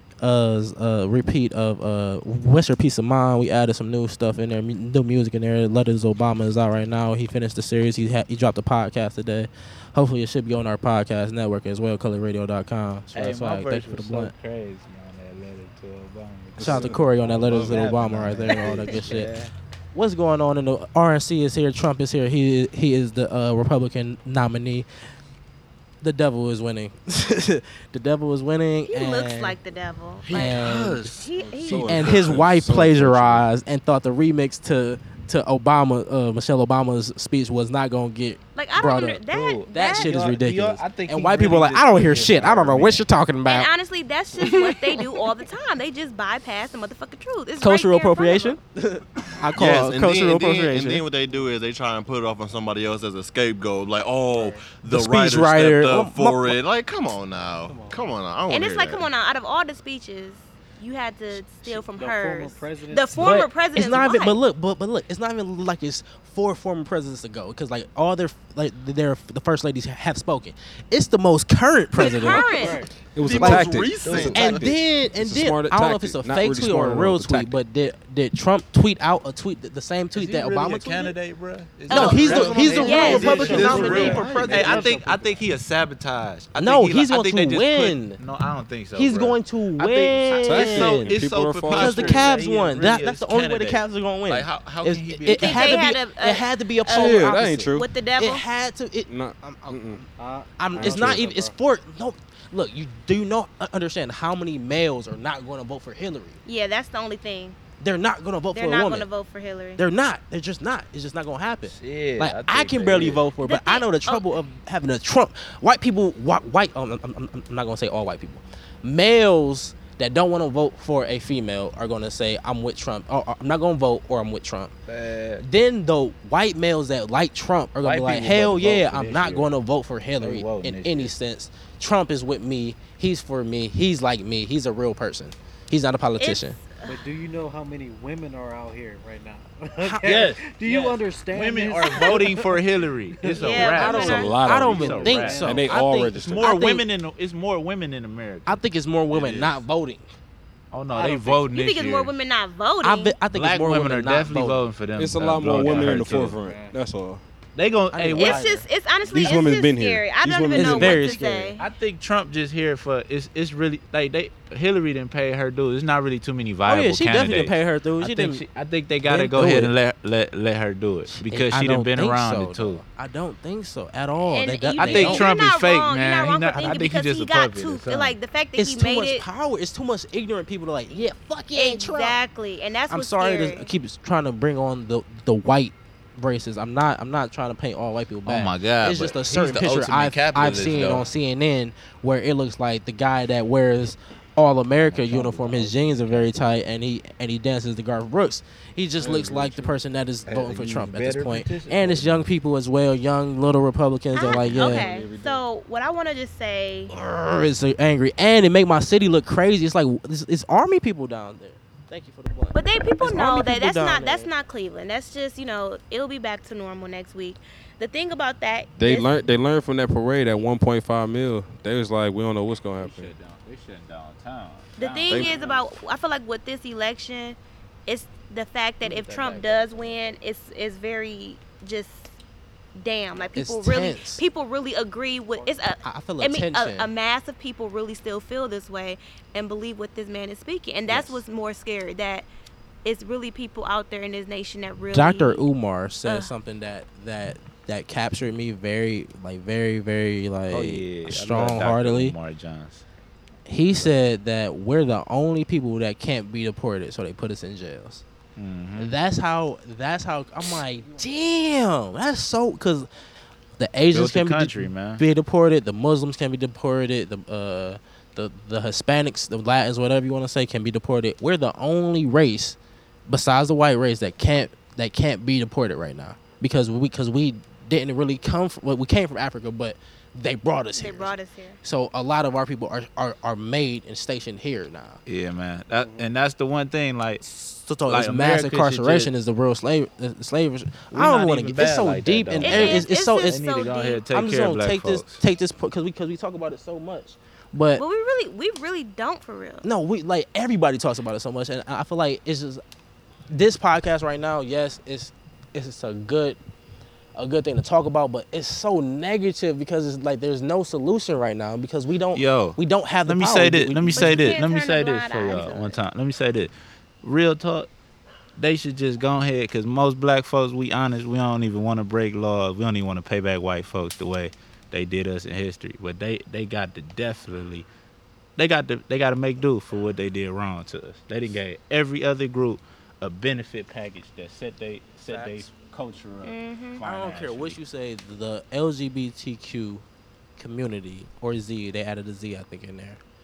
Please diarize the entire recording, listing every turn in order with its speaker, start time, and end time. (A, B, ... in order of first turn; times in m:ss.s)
0:00.2-0:14.3 A
0:13.1-0:19.5 B
0:16.6-0:18.9 C
0:16.6-0:19.3 A
0:19.9-0:24.9 A
0:26.0-0:29.6 A
0:28.9-0:32.0 D
0:30.2-0:32.4 E
0:30.3-0:31.1 A
0:31.6-0:33.5 C
0:31.9-0:39.2 A
0:38.6-0:40.1 D
0:39.3-0:43.0 B
0:39.7-0:43.7 A
0:43.4-0:48.6 D
0:44.4-0:45.1 A
0:47.6-0:51.0 A
0:49.5-0:59.1 E
0:54.3-0:54.7 F
0:54.9-0:56.6 A
0:57.6-0:58.1 F
0:58.5-1:04.4 D
1:01.5-1:03.5 F
1:03.2-1:12.7 A
1:12.0-1:12.8 D
1:12.2-1:12.9 F
1:13.1-1:17.6 C
1:13.2-1:14.7 E
1:13.4-1:14.6 B
1:14.3-1:21.2 A
1:20.1-1:35.8 B
1:21.9-1:23.5 D
1:21.9-1:25.0 A
1:22.4-1:22.7 C
1:22.7-1:25.4 F
1:23.3-1:23.9 C
1:23.6-1:24.1 E
1:26.5-1:28.2 A
1:28.9-1:31.2 A
1:30.3-1:32.3 C
1:31.7-1:40.0 A
1:35.3-1:38.4 D
1:36.9-1:37.9 C
1:39.1-1:40.0 C
1:40.2-1:41.6 F
1:40.6-1:46.4 A
1:40.8-1:41.3 C
1:46.4-1:47.6 D
1:47.8-1:49.1 A
1:48.5-1:49.8 D
1:49.8-2:04.7 A
1:51.7-1:53.2 B
1:53.4-1:54.3 D
2:04.9-2:05.4 B
2:05.4-2:16.6 A
2:07.8-2:09.5 B
2:10.2-2:11.1 B
2:16.2-2:16.9 D
2:16.8-2:22.6 F
2:19.8-2:20.3 A
2:20.0-2:29.6 B
2:23.2-2:25.7 F
2:23.4-2:24.3 D
2:23.7-2:25.7 A
2:25.4-2:26.5 C
2:26.4-2:26.8 D
2:26.4-2:26.8 A
2:28.4-2:30.1 A
2:30.7-2:32.1 B
2:30.9-2:31.5 F
2:31.5-2:33.2 D
2:32.8-2:34.6 A
2:33.3-2:36.4 B
2:34.9-2:37.2 C
2:35.6-2:36.8 F
2:37.6-2:38.4 B
2:37.9-2:38.6 A
2:38.2-2:41.6 D
2:39.0-2:41.1 C
2:40.6-2:41.5 A
2:41.6-2:52.8 B
2:46.6-2:48.4 A
2:49.1-2:49.7 A
2:51.1-2:55.3 A
2:54.3-2:59.2 D
2:54.8-2:58.2 B
2:56.6-2:56.9 A
2:58.6-3:02.2 A
3:01.5-3:03.7 D
3:02.9-3:24.9 A
3:08.2-3:11.0 B
3:14.8-3:16.3 B
3:19.0-3:19.7 B
3:20.2-3:22.2 B
3:24.1-3:26.9 D
3:24.2-3:25.4 B
3:26.9-3:34.3 A
3:32.5-3:39.1 D
3:38.8-3:43.1 C
3:42.8-3:45.4 B
3:44.8-3:52.1 D
3:45.1-3:45.4 C
3:48.8-3:49.4 F
3:52.8-4:02.2 D
3:53.3-3:54.2 A
3:55.4-3:55.7 F
3:55.8-3:56.9 A
4:00.9-4:01.2 A
4:02.8-4:05.4 D
4:04.9-4:12.1 A
4:06.0-4:06.3 D
4:10.5-4:12.8 B
4:13.5-4:18.0 A
4:18.4-4:18.9 B
4:18.8-4:22.9 A
4:23.6-4:32.6 A
4:23.9-4:25.0 B
4:33.1-4:45.0 A
4:40.7-4:41.6 D
4:45.0-4:47.2 B
4:45.8-4:46.1 F
4:47.2-4:53.4 A
4:47.9-4:49.1 B
4:50.9-4:55.2 B
4:52.4-4:54.0 D
4:54.1-4:57.8 A
4:57.8-4:59.6 D
4:59.6-5:02.6 A
5:03.3-5:06.4 A
5:07.2-5:14.3 A
5:12.1-5:16.5 B
5:13.9-5:15.8 D
5:17.0-5:17.7 B
5:18.4-5:27.7 B
5:28.4-5:37.6 B
5:35.1-5:35.4 A
5:36.2-5:36.8 D
5:36.8-5:39.8 A
5:40.4-5:43.0 A